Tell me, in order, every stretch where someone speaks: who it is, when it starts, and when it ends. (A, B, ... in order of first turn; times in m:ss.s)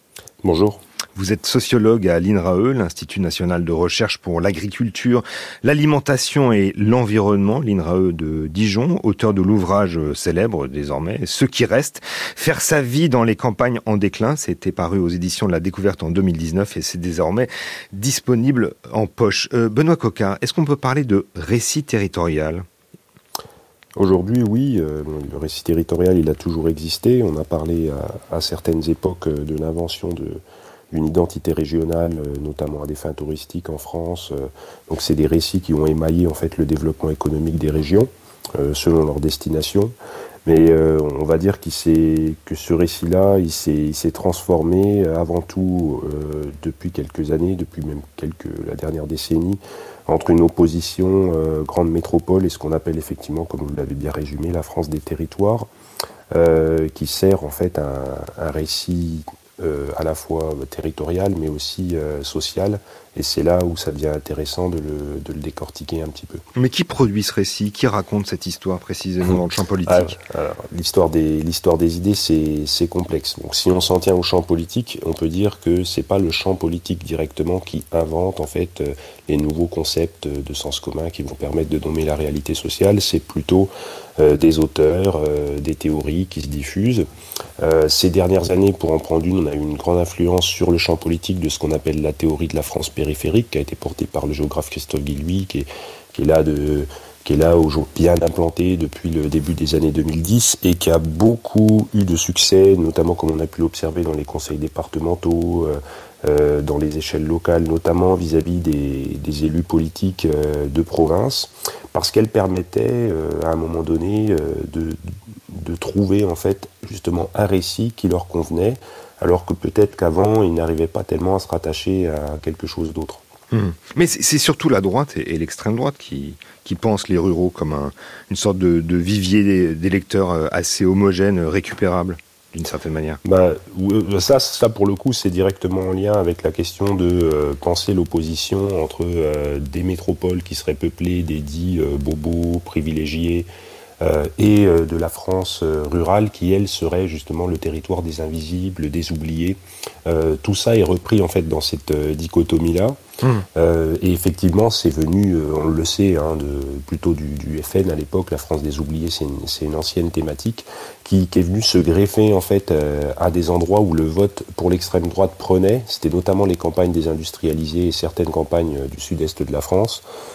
0:00.4-0:00.8 A
0:01.2-0:22.6 B
0:24.0-0:30.4 A
0:30.9-0:39.9 A
0:40.5-0:55.7 A
0:56.3-1:06.4 A
1:06.6-1:10.2 B
1:09.9-1:27.1 A
1:27.6-2:03.2 A
2:03.5-2:13.2 B
2:13.2-2:23.5 A
2:24.0-2:33.0 A
2:33.6-2:50.0 A